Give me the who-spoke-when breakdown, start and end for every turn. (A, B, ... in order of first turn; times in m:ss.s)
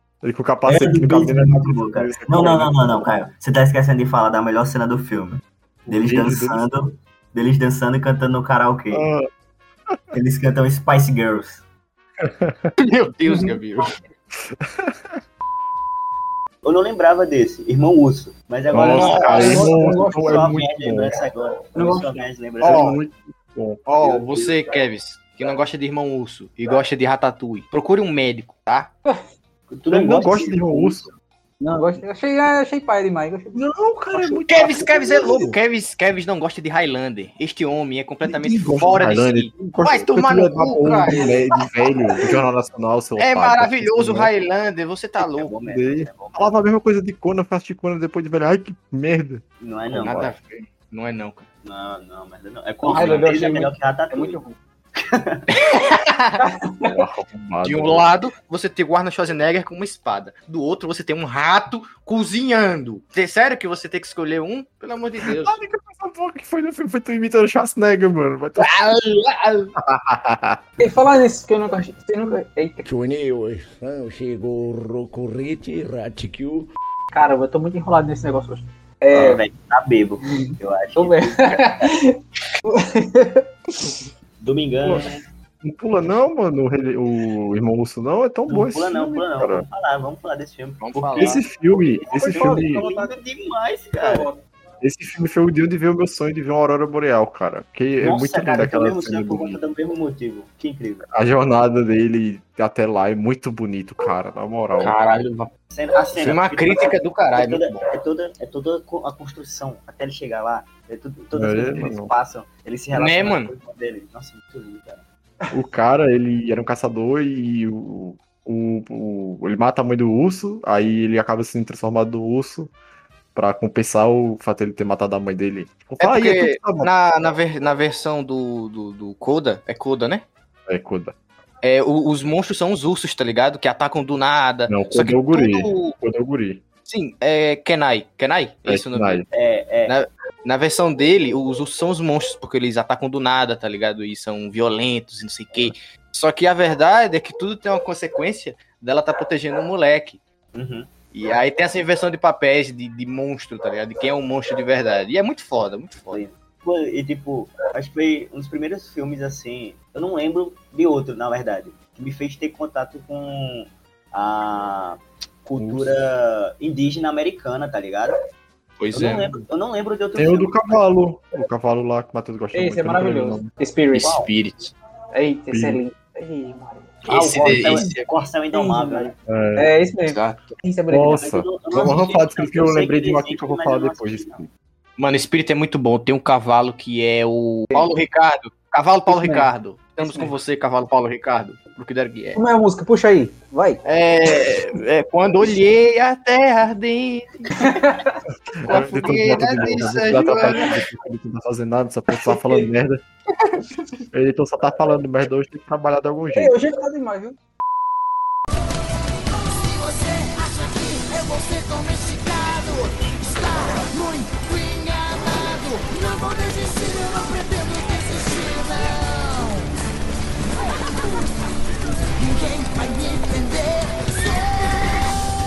0:00.2-0:03.0 A
0:00.6-0:09.0 B
0:05.8-0:06.6 A
0:08.9-0:09.3 A
0:10.1-0:11.6 B
0:12.2-0:12.7 A
0:12.8-0:14.0 C
0:13.3-0:13.5 D
0:14.5-0:15.0 A
0:16.6-0:23.0 B
0:18.7-0:21.2 A
0:18.8-0:19.6 C
0:19.0-0:20.4 D
0:21.7-0:22.3 D
0:22.6-0:23.8 A
0:22.6-0:23.0 C
0:23.8-0:28.9 C
0:24.0-0:24.5 B
0:29.7-0:31.1 B
0:29.9-0:31.1 A
0:31.6-0:33.6 D
0:33.5-0:35.6 A
0:34.2-0:34.4 B
0:34.5-0:41.4 C
0:38.2-0:44.3 A
0:43.2-0:45.5 C
0:45.4-0:46.5 B
0:45.6-0:50.3 A
0:49.6-0:50.3 B
0:50.0-0:51.4 C
0:51.6-0:54.4 B
0:52.8-0:54.6 D
0:52.9-0:53.3 C
0:55.0-0:55.5 B
0:55.5-0:56.4 C
0:56.4-0:56.9 D
0:56.8-0:58.1 A
0:57.6-1:05.6 C
1:05.3-1:08.7 A
1:08.6-1:09.7 C
1:09.8-1:10.6 A
1:10.8-1:12.9 D
1:12.8-1:16.7 E
1:17.1-1:19.4 D
1:19.1-1:21.9 B
1:20.2-1:23.4 D
1:24.4-1:25.1 B
1:24.8-1:25.1 A
1:25.6-1:29.6 A
1:28.5-1:34.3 B
1:30.8-1:31.4 C
1:31.2-1:32.8 A
1:32.2-1:33.2 D
1:34.0-1:34.4 D
1:34.8-1:39.6 A
1:38.0-1:41.1 B
1:41.1-1:45.0 A
1:44.8-1:45.5 C
1:45.7-1:55.0 B
1:46.2-1:47.8 C
1:51.3-1:52.1 A
1:52.9-1:53.5 C
1:55.5-2:02.7 A
2:03.3-2:06.9 A
2:06.0-2:10.2 C
2:10.7-2:11.1 A
2:11.6-2:16.0 C
2:14.7-2:16.6 A
2:16.8-2:19.2 C
2:18.7-2:19.2 A
2:19.3-2:19.9 B
2:19.8-2:30.2 C
2:30.5-2:30.9 B
2:31.1-2:36.2 C
2:36.1-2:48.2 B
2:45.6-2:45.9 A
2:48.8-2:49.2 C
2:48.9-2:50.8 B
2:50.1-2:53.5 A
2:52.5-2:54.2 D
2:53.9-2:54.7 C
2:54.0-2:54.3 B
2:55.1-2:57.9 D
2:55.5-2:55.8 A
2:57.0-2:59.2 B
2:57.1-2:58.1 C
2:58.5-3:01.3 D
2:59.3-2:59.7 A
3:00.1-3:00.6 C
3:00.9-3:04.5 A
3:01.2-3:04.4 B
3:05.0-3:12.4 C
3:09.1-3:09.5 D
3:10.0-3:10.3 D
3:12.3-3:13.8 D
3:13.8-3:17.8 C
3:17.6-3:18.2 D
3:18.6-3:23.0 A
3:18.6-3:20.7 C
3:19.6-3:20.4 D
3:22.3-3:22.7 D
3:24.1-3:26.6 A
3:26.3-3:27.4 D
3:31.3-3:32.2 E
3:34.0-3:35.1 E
3:35.6-3:38.6 E